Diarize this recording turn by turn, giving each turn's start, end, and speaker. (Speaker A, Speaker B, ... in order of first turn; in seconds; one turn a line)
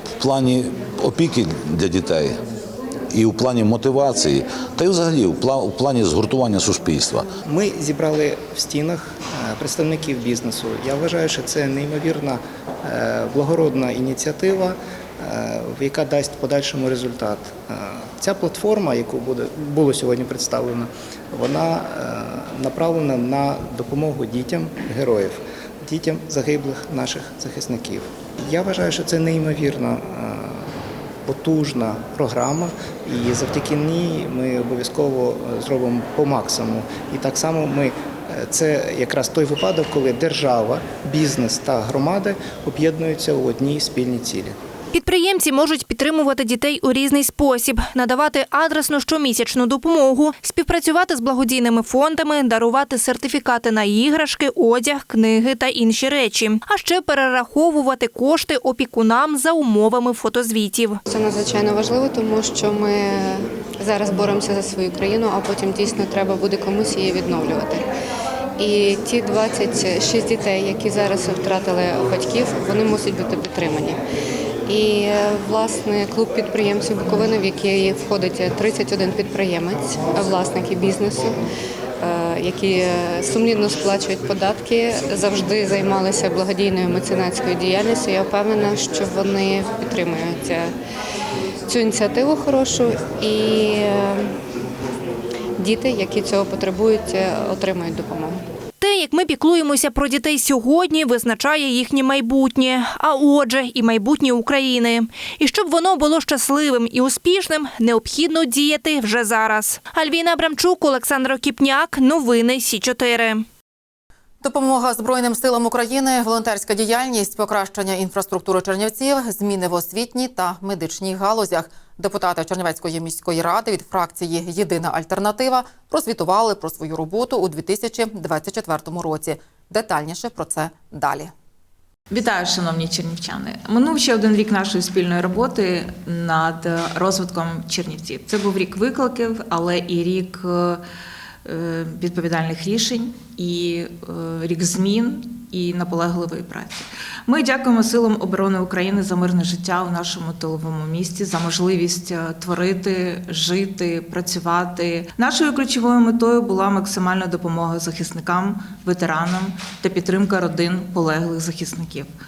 Speaker A: 0.2-2.4
Speaker A: 3.1-7.3
Speaker B: 7.5-30.7
Speaker B: 31.3-44.6
Speaker C: 44.9-61.0
Speaker D: 61.1-67.9
Speaker D: 68.6-74.0
Speaker D: 74.7-81.4
Speaker D: 82.0-90.7
Speaker D: 91.7-94.3
Speaker D: 95.6-98.4
Speaker C: 98.8-113.5
Speaker E: 114.4-131.3
Speaker F: 132.1-140.8
Speaker F: 141.4-162.1